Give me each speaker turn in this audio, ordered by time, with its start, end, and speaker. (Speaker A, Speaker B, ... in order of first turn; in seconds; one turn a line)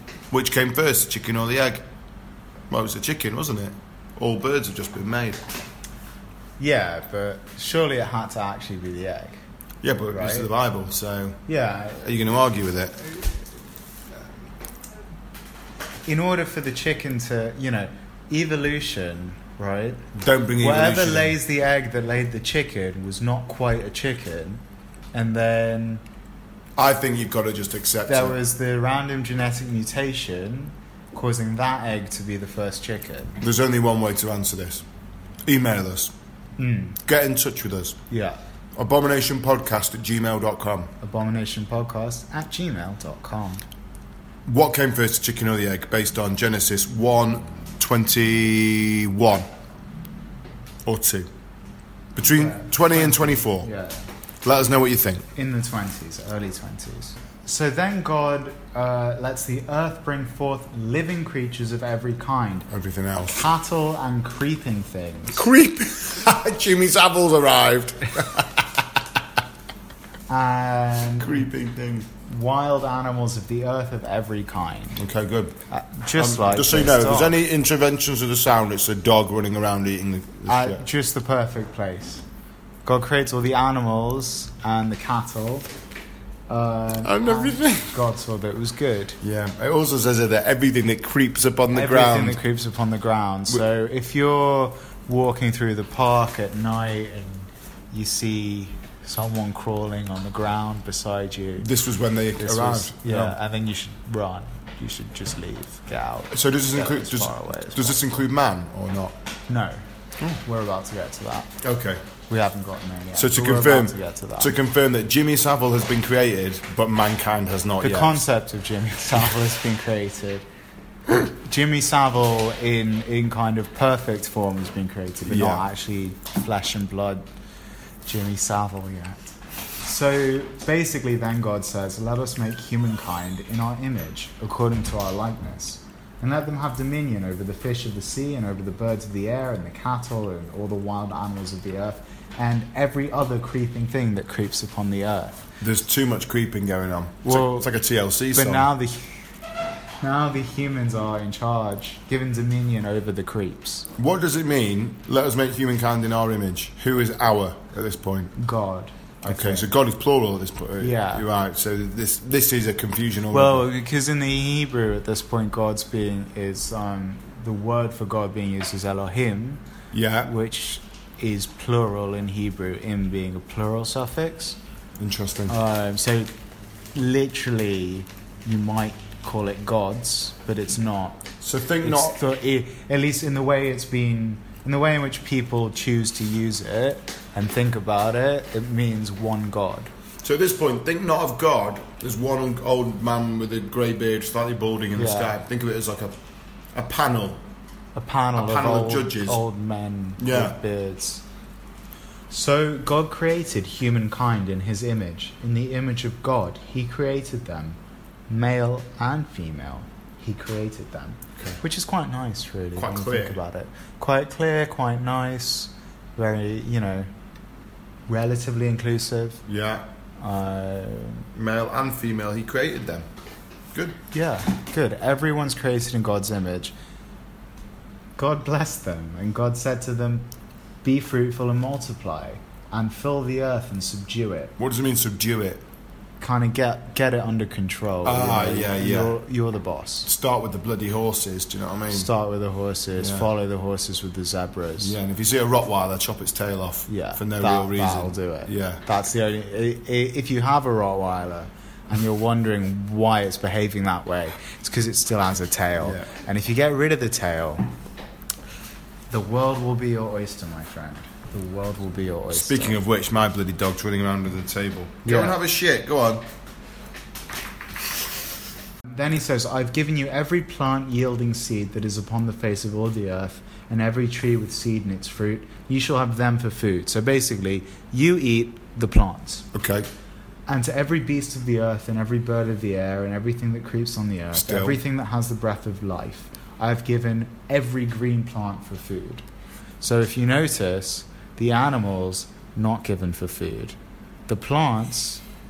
Speaker A: 0.3-1.8
Speaker A: 2.7-5.4
Speaker B: 6.6-9.4
Speaker A: 9.8-11.4
Speaker B: 10.1-10.5
Speaker B: 11.5-12.0
Speaker A: 12.0-13.3
Speaker B: 16.1-20.0
Speaker A: 20.1-21.4
Speaker B: 20.6-24.6
Speaker B: 25.1-26.0
Speaker A: 26.8-28.4
Speaker B: 28.1-33.4
Speaker A: 33.4-34.8
Speaker A: 35.4-36.1
Speaker B: 36.6-37.0
Speaker A: 37.0-38.0
Speaker B: 38.1-38.4
Speaker A: 38.8-40.9
Speaker B: 41.0-43.6
Speaker A: 44.5-49.5
Speaker A: 50.8-51.3
Speaker A: 52.1-53.7
Speaker B: 52.2-54.1
Speaker A: 54.4-55.2
Speaker B: 55.3-62.7
Speaker A: 62.7-63.4
Speaker B: 63.3-65.5
Speaker A: 65.3-69.0
Speaker B: 70.3-71.4
Speaker A: 71.2-72.1
Speaker B: 72.2-75.0
Speaker A: 75.0-75.6
Speaker B: 75.7-77.3
Speaker A: 76.2-80.8
Speaker B: 80.5-82.2
Speaker B: 82.8-85.7
Speaker B: 86.5-89.2
Speaker A: 87.0-88.0
Speaker A: 89.2-92.4
Speaker B: 91.7-101.7
Speaker A: 101.6-103.4
Speaker B: 102.4-108.0
Speaker A: 106.3-109.2
Speaker B: 109.5-109.8
Speaker B: 110.3-111.5
Speaker A: 111.6-112.0
Speaker B: 112.3-114.5
Speaker A: 113.1-118.2
Speaker B: 117.8-120.4
Speaker B: 121.1-127.2
Speaker A: 125.3-125.6
Speaker B: 128.1-129.2
Speaker B: 129.8-145.5
Speaker A: 145.6-148.7
Speaker B: 147.2-147.7
Speaker B: 148.3-149.2
Speaker B: 150.0-153.9
Speaker A: 154.0-158.3
Speaker B: 158.3-159.7
Speaker A: 159.2-163.7
Speaker B: 160.8-161.3
Speaker B: 163.3-169.6
Speaker A: 169.9-170.3
Speaker B: 170.2-174.6
Speaker A: 175.0-175.6
Speaker B: 175.5-176.3
Speaker B: 176.9-181.2
Speaker A: 181.4-182.2
Speaker B: 181.8-189.9
Speaker A: 190.2-196.2
Speaker B: 194.9-195.4
Speaker A: 196.7-197.4
Speaker B: 197.9-201.2
Speaker A: 198.3-199.4
Speaker A: 200.2-200.6
Speaker B: 202.3-207.8
Speaker B: 208.3-217.1
Speaker A: 212.8-213.4
Speaker B: 218.1-219.4
Speaker A: 219.4-219.8
Speaker B: 220.2-221.3
Speaker A: 221.3-223.1
Speaker A: 223.7-224.0
Speaker B: 224.1-226.7
Speaker B: 228.2-230.3
Speaker B: 230.8-234.5
Speaker A: 234.6-235.6
Speaker B: 236.2-240.1
Speaker A: 238.0-239.1
Speaker A: 240.1-242.1
Speaker B: 241.9-244.9
Speaker A: 243.0-243.3
Speaker A: 244.8-248.8
Speaker B: 246.9-257.6
Speaker A: 255.8-256.1
Speaker B: 259.1-262.8
Speaker A: 262.3-266.2
Speaker B: 265.0-265.4
Speaker B: 268.9-279.5
Speaker A: 279.5-279.9
Speaker B: 280.5-289.2
Speaker A: 284.3-284.8
Speaker B: 289.8-293.8
Speaker B: 294.3-295.2